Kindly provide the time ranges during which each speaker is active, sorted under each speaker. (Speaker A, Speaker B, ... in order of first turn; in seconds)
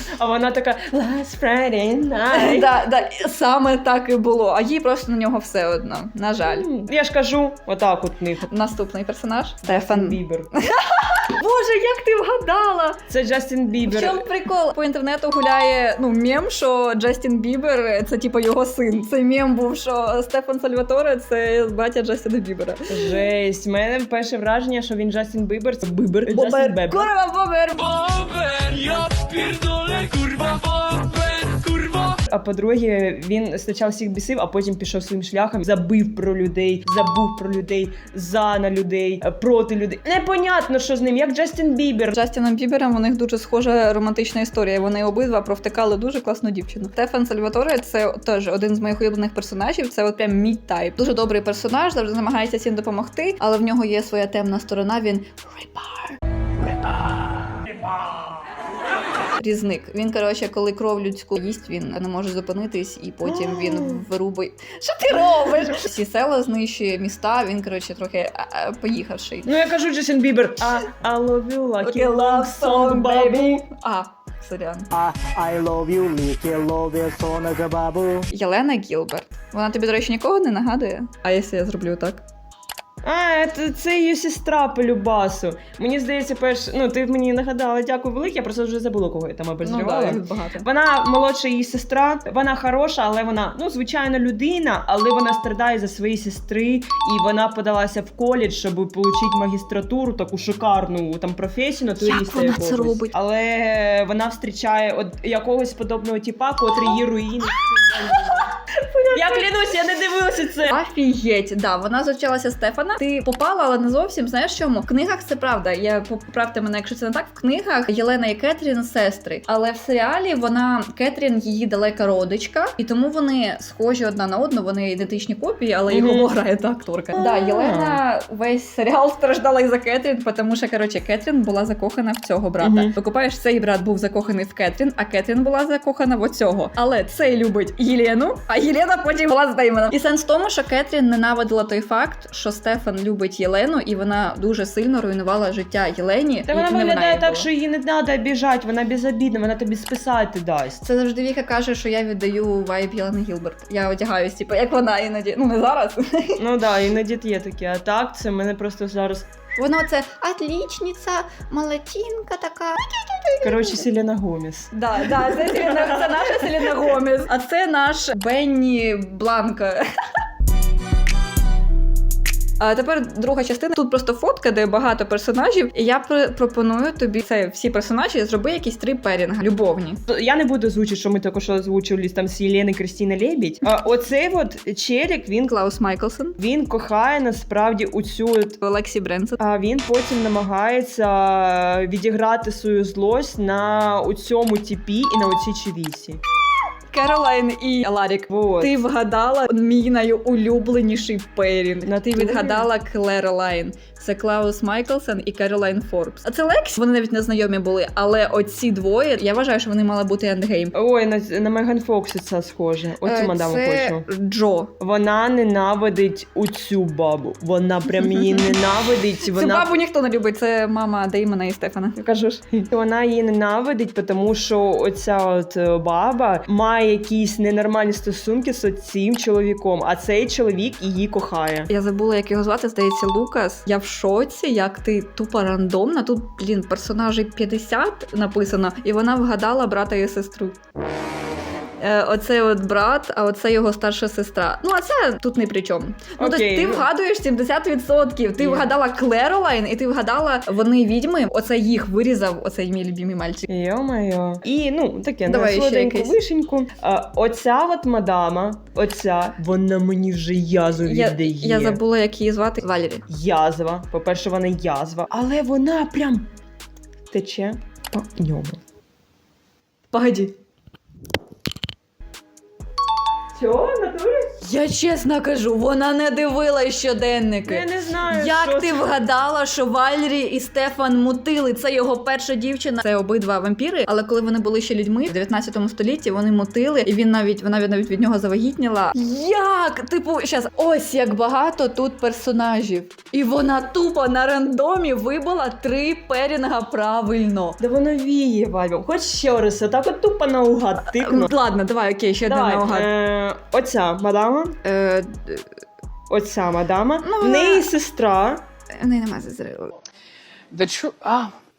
Speaker A: 0.2-2.7, 6.4-8.4, 9.7-10.5, 13.1-14.2, 22.9-27.1, 32.3-42.2, 63.3-64.0, 69.5-73.6, 83.0-108.5, 109.1-110.8, 125.9-126.3, 127.2-128.0, 132.6-132.9, 146.5-150.8, 156.4-159.3, 163.4-166.7, 180.1-185.5, 186.4-188.6, 189.4-196.2, 198.3-198.8, 201.9-202.7, 210.8-214.1, 214.8-219.7, 222.5-231.7, 246.2-246.9, 248.4-248.7, 253.5-261.8, 263.1-266.3, 267.1-268.6, 273.4-274.3, 277.5-279.0, 297.6-301.3, 302.3-304.6, 306.1-308.4
Speaker B: 2.3-6.7, 8.5-13.0, 13.9-23.2, 26.3-28.2, 42.1-56.2, 59.4-69.5, 71.8-74.9, 78.3-82.2, 89.6-90.7, 102.0-103.1, 108.2-109.5, 110.7-147.5, 150.8-156.4, 159.6-163.8, 164.7-169.8, 172.6-180.0, 185.4-186.4, 188.6-189.4, 196.9-210.8, 213.1-214.7, 218.1-218.6, 219.3-222.4, 231.7-240.6, 241.8-253.5, 255.3-256.1, 260.9-263.1, 269.9-270.3, 274.4-297.6, 300.9-302.9, 304.6-305.5, 307.0-307.6, 308.7-309.7
Speaker C: 28.2-32.1, 310.5-311.3
Speaker D: 74.9-78.3